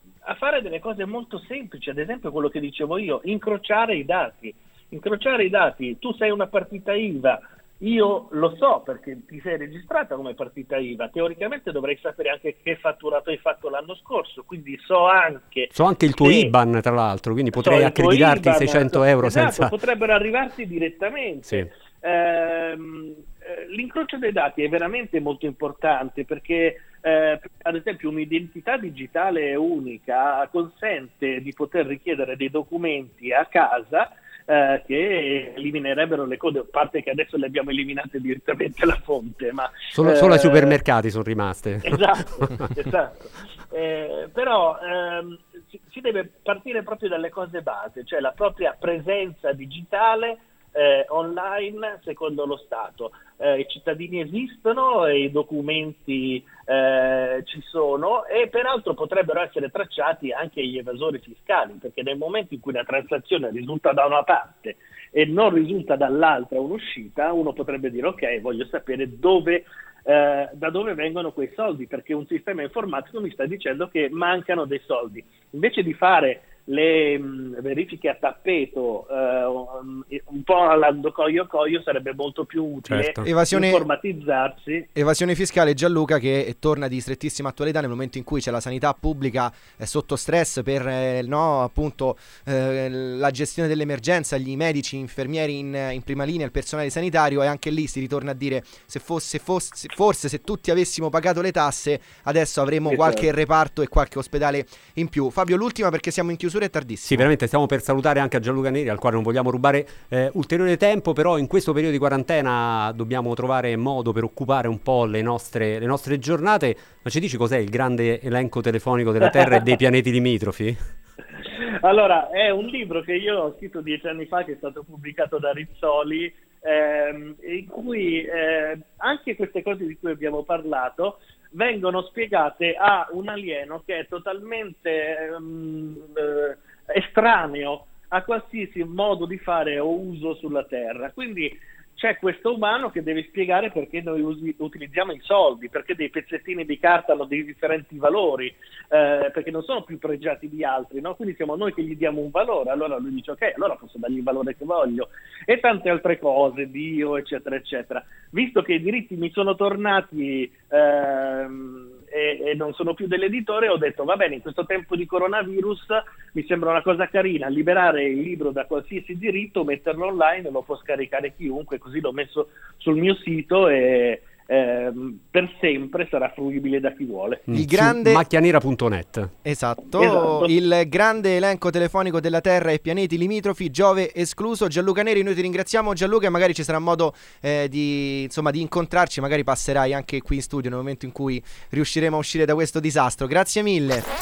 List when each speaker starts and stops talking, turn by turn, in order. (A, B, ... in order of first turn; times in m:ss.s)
0:00.2-0:16.5 A
0:15.7-0:19.7 B
0:17.5-0:40.8 A
0:39.9-0:42.7 B
0:41.8-0:43.2 A
0:43.7-1:24.9 A
1:22.8-1:23.3 B
1:23.2-1:23.9 C
1:25.0-1:47.3 C
1:42.8-1:43.3 A
1:47.1-2:00.8 B
2:01.4-2:57.4 A
2:57.5-2:59.3 B
2:57.5-2:58.2 C
2:59.4-3:14.0 C
3:00.0-3:00.5 A